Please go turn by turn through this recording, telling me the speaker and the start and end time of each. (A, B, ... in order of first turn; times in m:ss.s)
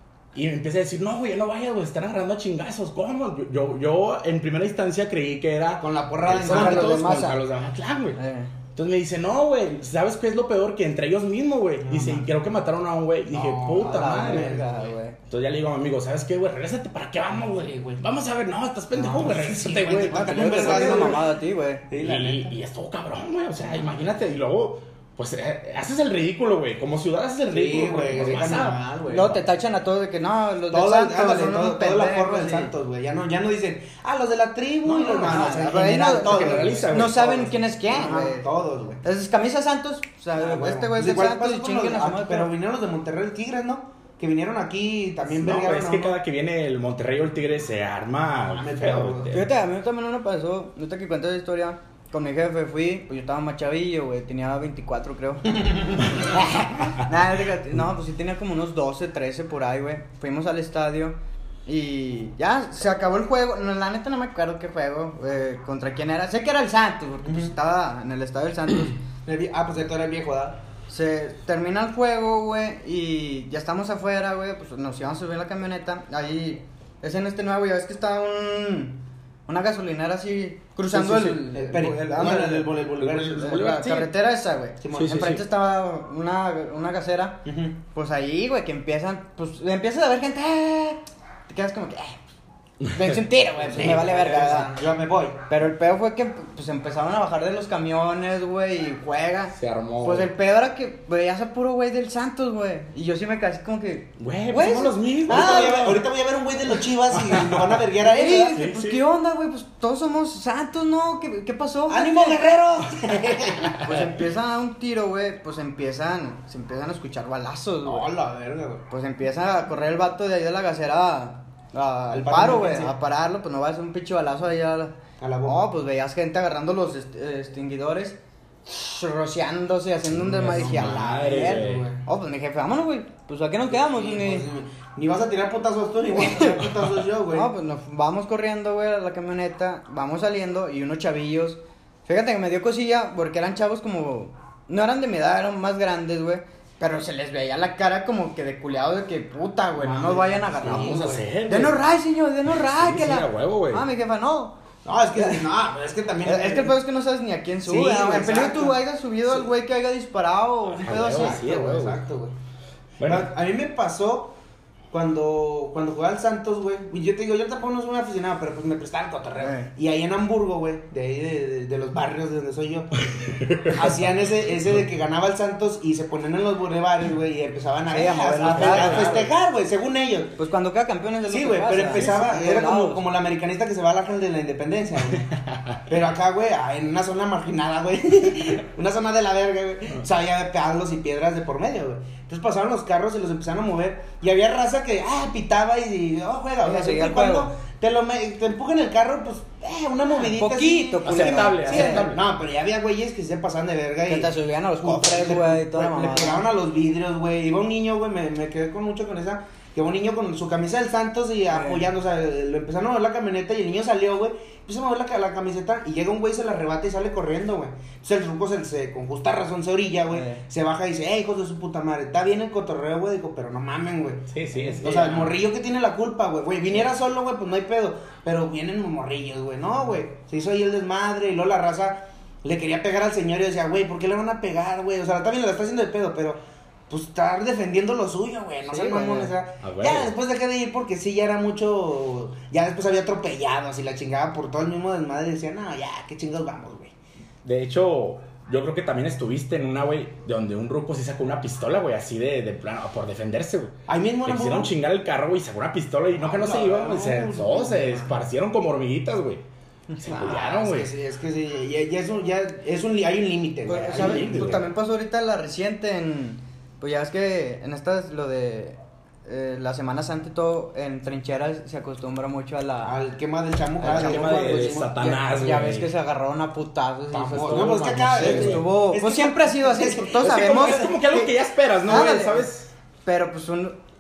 0:00.3-0:08.2 A
0:05.8-0:07.2 B
0:06.4-0:07.4 C
0:08.2-0:08.5 C
0:08.7-0:14.6 A
0:11.8-0:12.3 B
0:13.3-0:15.0 B
0:13.8-0:15.2 C
0:15.3-0:21.2 A
0:17.5-0:18.0 B
0:18.9-0:21.2 B
0:20.0-0:21.8 C
0:21.9-0:22.6 B
0:22.0-0:28.8 A
0:27.5-0:29.4 B
0:29.1-0:32.7 C
0:30.7-0:39.0 B
0:34.9-0:35.6 A
0:35.0-0:38.5 C
0:36.1-0:37.2 A
0:39.0-0:42.5 C
0:40.4-0:46.2 B
0:45.3-0:49.5 A
0:48.5-0:49.4 B
0:49.3-1:09.0 C
1:07.2-1:07.5 B
1:09.3-1:10.6 B
1:10.9-1:32.3 C
1:20.9-1:23.7 B
1:23.0-1:24.1 A
1:24.8-1:25.2 B
1:24.9-1:25.4 A
1:27.4-1:27.8 B
1:32.8-1:34.7 C
1:33.6-1:35.4 B
1:35.5-1:46.0 C
1:39.5-1:40.3 A
1:44.2-1:46.0 A
1:45.3-1:48.6 B
1:47.1-1:47.8 A
1:48.0-1:52.4 C
1:48.5-1:49.0 A
1:51.9-1:53.8 B
1:53.7-1:58.1 C
1:57.8-1:58.8 B
1:58.9-2:14.5 C
2:02.1-2:02.9 B
2:05.2-2:05.6 B
2:10.1-2:11.9 A
2:10.5-2:12.0 B
2:13.7-2:17.5 B
2:16.2-2:16.6 C
2:17.3-2:34.6 C
2:29.8-2:31.3 B
2:30.6-2:31.8 A
2:32.7-2:33.8 A
2:34.8-2:36.8 B
2:35.2-2:35.4 C
2:36.2-2:41.6 C
2:37.6-2:39.5 B
2:40.7-2:42.0 A
2:40.9-2:42.3 B
2:43.0-2:43.3 A
2:43.0-2:44.4 B
2:44.9-2:53.0 B
2:49.4-2:49.7 C
2:53.0-2:54.1 A
2:53.7-3:00.4 B
2:57.9-2:59.2 C
2:58.4-2:59.3 A
3:00.4-3:03.0 C
3:01.3-3:05.3 B
3:01.9-3:02.2 A
3:05.2-3:05.8 A
3:05.9-4:06.9 B
3:16.6-3:17.5 C
3:20.1-3:22.1 C
3:21.0-3:22.2 A
3:24.1-3:26.5 C
3:31.5-3:31.8 C
3:40.1-3:40.4 C
3:44.3-3:45.4 A
3:58.7-3:59.3 C
3:59.6-4:00.1 A
4:07.4-4:19.4 A
4:13.9-4:14.7 B
4:16.2-4:18.2 B
4:19.9-4:20.2 C
4:20.0-4:20.9 A
4:20.1-4:24.6 B
4:23.7-4:33.0 C
4:23.9-4:24.7 A
4:32.8-4:35.0 B
4:33.8-4:41.3 C
4:33.8-4:35.9 A
4:37.1-4:40.9 B
4:37.4-4:38.6 A
4:40.2-4:42.7 A
4:41.8-4:42.5 C
4:43.0-4:43.8 C